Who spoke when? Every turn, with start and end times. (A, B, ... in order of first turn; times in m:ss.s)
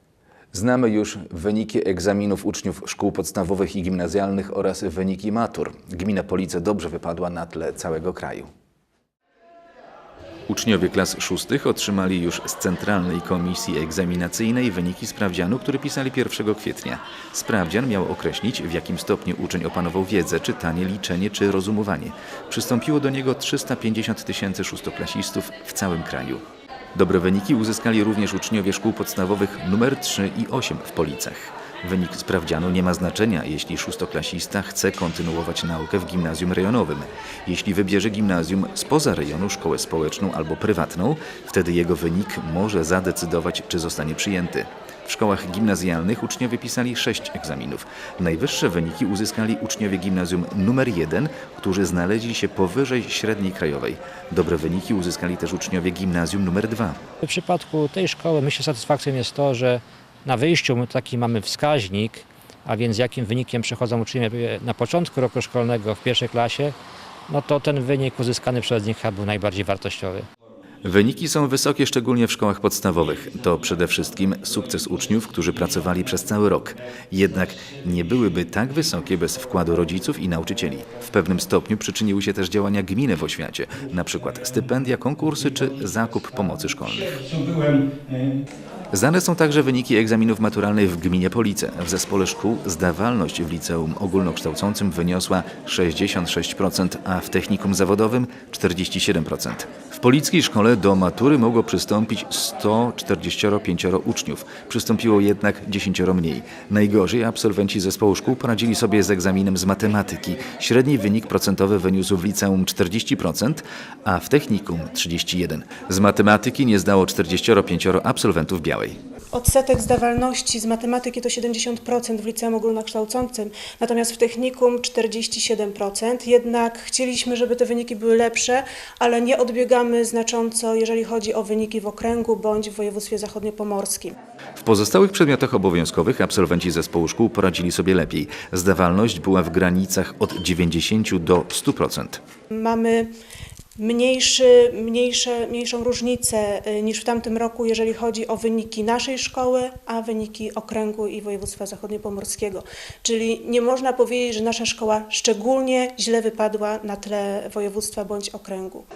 0:00.5-0:08.5 A
0:10.5-0:26.4 A
0:26.9-0:57.0 A
0:57.2-1:06.7 B
1:07.3-1:10.3 B
1:10.8-1:27.2 A
1:27.2-1:28.0 B
1:28.9-1:59.0 A
1:59.3-2:14.1 C
2:14.6-2:22.2 A
2:22.5-2:23.1 C
2:23.8-2:38.8 C